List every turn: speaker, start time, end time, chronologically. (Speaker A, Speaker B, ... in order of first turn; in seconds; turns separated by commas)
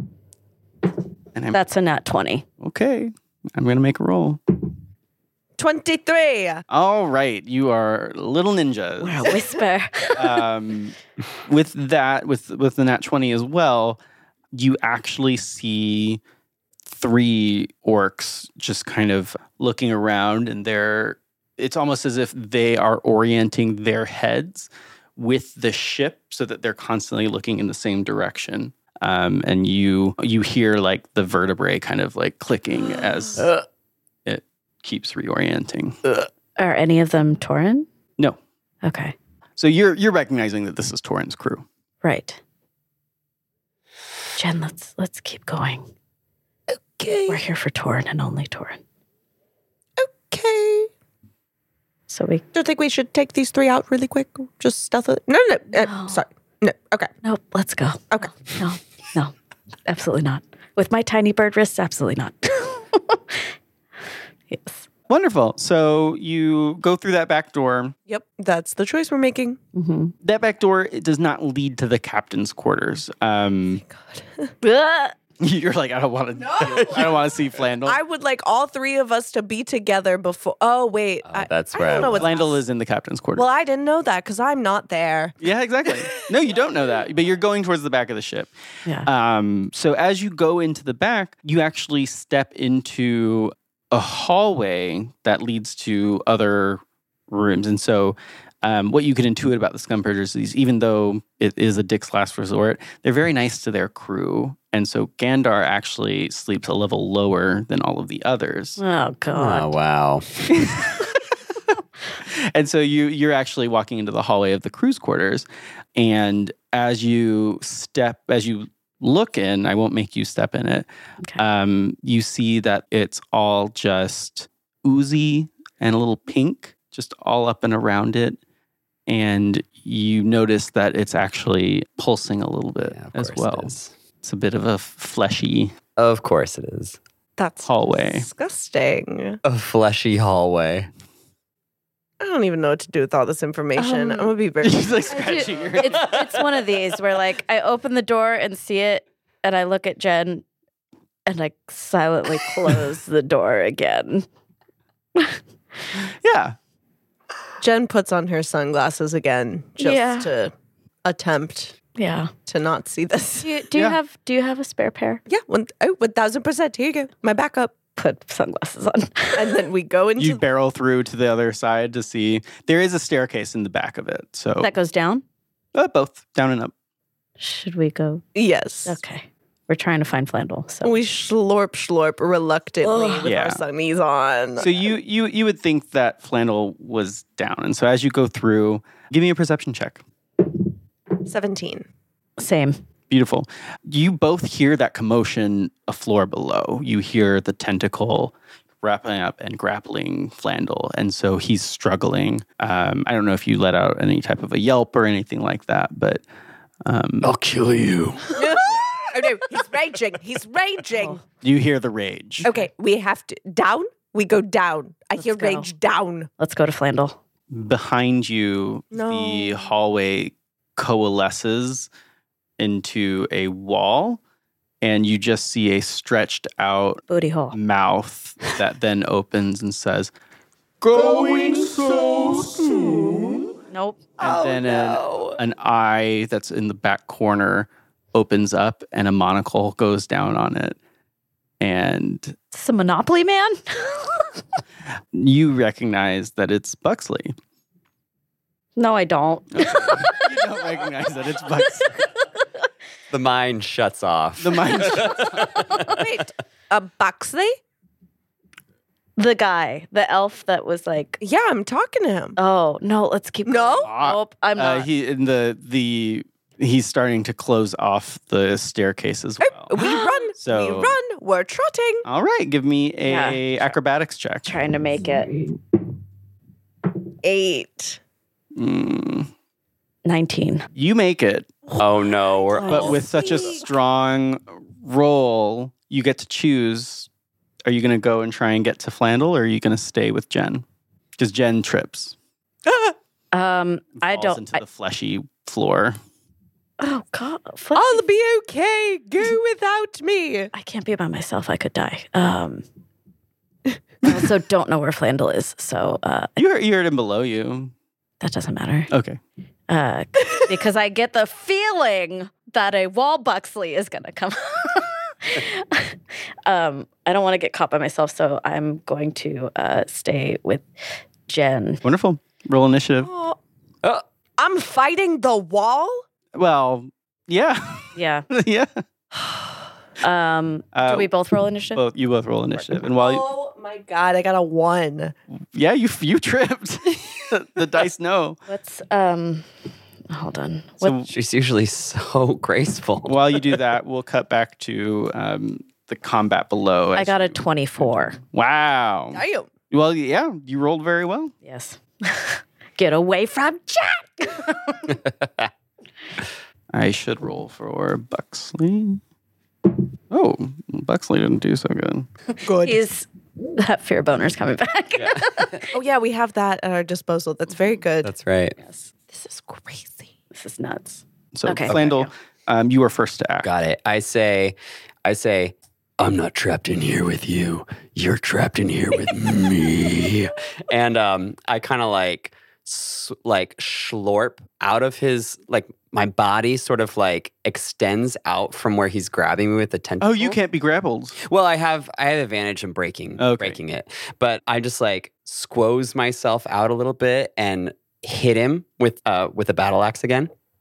Speaker A: 1.5-2.4, Speaker B: 2.6-4.4, Speaker C: 5.6-6.6, Speaker B: 6.7-9.4, Speaker A: 9.0-10.4, Speaker B: 10.1-14.0, Speaker B: 14.5-16.2, Speaker B: 16.9-33.5, Speaker B: 34.2-36.0, Speaker A: 36.6-37.9, Speaker A: 38.8-39.1, Speaker B: 39.6-41.6, Speaker A: 42.0-42.4, Speaker A: 44.3-45.8, Speaker C: 46.7-47.4, Speaker A: 47.3-48.8, Speaker C: 50.0-50.9, Speaker A: 52.1-52.4, Speaker C: 52.5-57.1, Speaker A: 55.8-56.2, Speaker A: 57.2-59.3, Speaker A: 59.9-63.4, Speaker A: 64.5-64.8, Speaker B: 65.1-67.9, Speaker C: 68.1-69.6, Speaker A: 69.7-70.1, Speaker B: 70.2-73.8, Speaker C: 73.8-74.5, Speaker A: 74.6-75.2, Speaker B: 75.4-78.0, Speaker C: 76.5-77.2, Speaker C: 77.8-82.6, Speaker D: 81.2-82.2, Speaker B: 82.1-83.5, Speaker C: 83.3-85.3, Speaker B: 85.4-88.5, Speaker B: 89.0-108.8, Speaker A: 108.8-109.7, Speaker D: 109.3-110.5, Speaker B: 110.7-111.2, Speaker B: 112.2-120.8, Speaker B: 121.4-128.4, Speaker B: 129.1-135.7, Speaker D: 132.9-133.9, Speaker D: 135.9-137.0, Speaker C: 137.4-139.4, Speaker B: 137.6-138.3, Speaker D: 139.4-140.9, Speaker C: 142.2-144.9, Speaker A: 143.8-144.3, Speaker B: 144.6-146.2, Speaker A: 145.1-150.4, Speaker A: 151.2-154.3, Speaker B: 156.2-156.6, Speaker C: 157.6-160.5, Speaker A: 159.8-160.3, Speaker C: 161.0-161.7, Speaker A: 161.9-162.3, Speaker C: 162.4-163.5, Speaker A: 163.4-165.2, Speaker C: 165.3-167.7, Speaker A: 167.9-169.6, Speaker C: 169.3-170.4, Speaker B: 170.2-174.7, Speaker A: 174.6-175.2, Speaker B: 175.7-176.7, Speaker A: 177.4-178.2, Speaker C: 178.3-179.0, Speaker A: 178.8-180.9, Speaker C: 180.8-184.9, Speaker A: 182.8-183.3, Speaker B: 183.2-183.6, Speaker B: 184.6-190.0, Speaker C: 191.2-191.9, Speaker A: 192.4-192.8, Speaker B: 193.1-206.2, Speaker B: 206.8-207.3, Speaker D: 207.2-208.6, Speaker C: 208.3-211.2, Speaker B: 211.4-212.5, Speaker C: 212.4-216.3, Speaker A: 215.2-215.7, Speaker A: 216.4-217.2, Speaker B: 217.5-221.9, Speaker C: 218.9-219.7, Speaker B: 222.6-224.2, Speaker B: 224.8-230.1, Speaker A: 227.1-227.6, Speaker B: 230.8-233.5, Speaker A: 233.7-234.0, Speaker B: 234.2-240.8, Speaker B: 241.6-242.3, Speaker A: 242.5-244.4, Speaker B: 245.1-247.3, Speaker A: 248.8-250.3, Speaker B: 249.5-252.2, Speaker D: 253.1-255.8, Speaker B: 254.4-255.6, Speaker C: 255.7-257.5, Speaker A: 259.2-261.2, Speaker C: 261.2-262.4, Speaker A: 262.4-264.9, Speaker C: 263.4-263.9, Speaker B: 263.8-269.8, Speaker C: 269.4-272.0, Speaker B: 270.4-270.9, Speaker B: 272.0-274.5, Speaker A: 273.1-273.7, Speaker A: 274.4-275.4, Speaker C: 277.2-278.0, Speaker B: 278.6-279.3, Speaker A: 280.0-280.6, Speaker B: 280.8-281.5, Speaker C: 281.7-283.6, Speaker D: 281.8-283.5, Speaker A: 282.6-282.9, Speaker B: 282.7-287.1, Speaker B: 287.6-290.6, Speaker B: 291.2-292.1, Speaker A: 293.3-294.6, Speaker B: 294.0-296.0, Speaker A: 296.8-298.0, Speaker C: 297.7-300.5, Speaker A: 300.5-302.6, Speaker A: 304.0-306.3, Speaker B: 306.4-307.7, Speaker A: 308.2-308.9, Speaker B: 308.9-309.2, Speaker A: 309.7-320.6, Speaker A: 321.3-321.8, Speaker B: 321.8-323.1, Speaker C: 323.0-323.4, Speaker C: 324.4-326.0, Speaker B: 326.3-328.8, Speaker A: 327.9-328.2, Speaker A: 330.0-331.8, Speaker B: 330.7-331.1, Speaker B: 331.7-333.2, Speaker C: 332.9-335.1, Speaker B: 335.5-338.4, Speaker A: 338.5-339.4, Speaker A: 340.1-341.0, Speaker B: 340.8-341.1, Speaker D: 341.1-343.6, Speaker B: 343.1-351.3, Speaker A: 346.9-348.2, Speaker C: 349.1-349.5, Speaker A: 351.4-354.8, Speaker D: 355.0-355.5, Speaker B: 356.7-359.0, Speaker B: 360.1-362.1, Speaker C: 362.4-362.8, Speaker A: 362.6-365.7, Speaker D: 364.9-365.5, Speaker C: 365.7-368.1, Speaker D: 368.0-368.6, Speaker A: 368.6-368.9, Speaker C: 369.1-370.1, Speaker A: 370.3-372.1, Speaker B: 371.3-373.5, Speaker D: 371.7-371.9, Speaker D: 373.4-390.4, Speaker B: 390.0-391.2, Speaker D: 391.2-400.3, Speaker B: 393.2-393.6